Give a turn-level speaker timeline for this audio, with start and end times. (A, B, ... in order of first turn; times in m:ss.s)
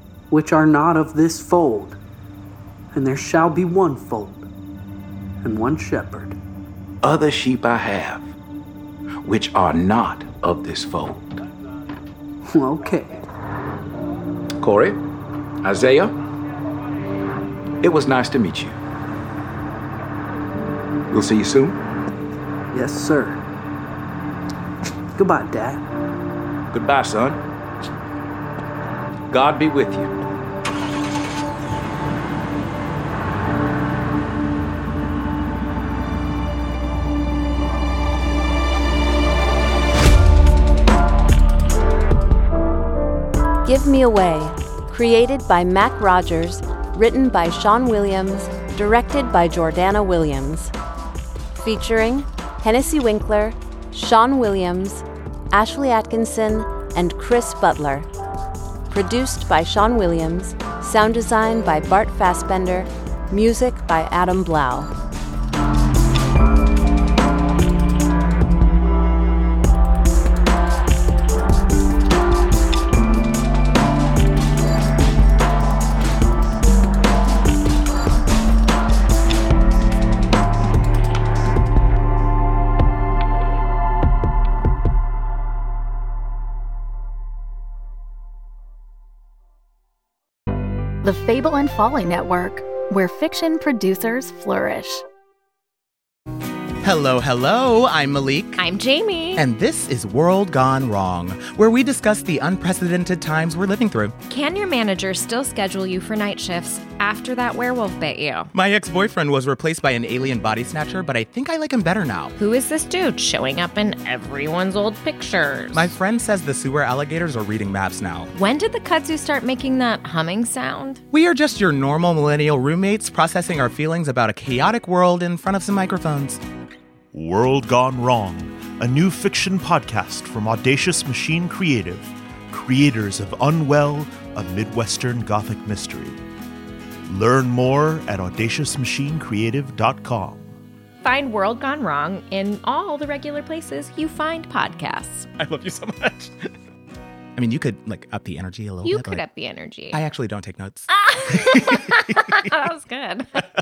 0:00.3-0:02.0 A
0:02.9-0:04.5 A
0:05.4-0:06.4 A
0:07.0-0:08.3 B
0:09.2-0:11.4 B
0:12.5-0:13.2 A
0:14.6-0:15.0 B
0:15.6-0:16.2 B
0:17.8-0:18.8 B
0:21.1-0:21.8 B
0:22.7-0:23.4 A
0:25.2-0:25.8 A
0:26.7-0:27.4 B
0:29.3-0:30.1 B
0:43.6-0:50.7 C
0:51.6-0:58.1 C
0:58.9-1:04.9 C
1:31.0-1:35.0 D
1:36.8-1:38.6 E
1:38.6-1:39.4 F
1:39.4-1:44.1 E
1:44.3-1:48.5 F
1:48.5-1:52.3 E
1:52.4-1:55.9 F
1:55.7-1:58.3 E
1:58.3-2:01.0 F
2:01.1-2:06.4 E
2:07.1-2:16.2 G
2:17.1-2:20.5 G
2:21.0-2:25.3 F
2:25.3-2:26.5 E
2:27.4-2:29.3 E
2:28.8-2:30.0 F
2:29.9-2:32.4 E
2:30.9-2:33.4 F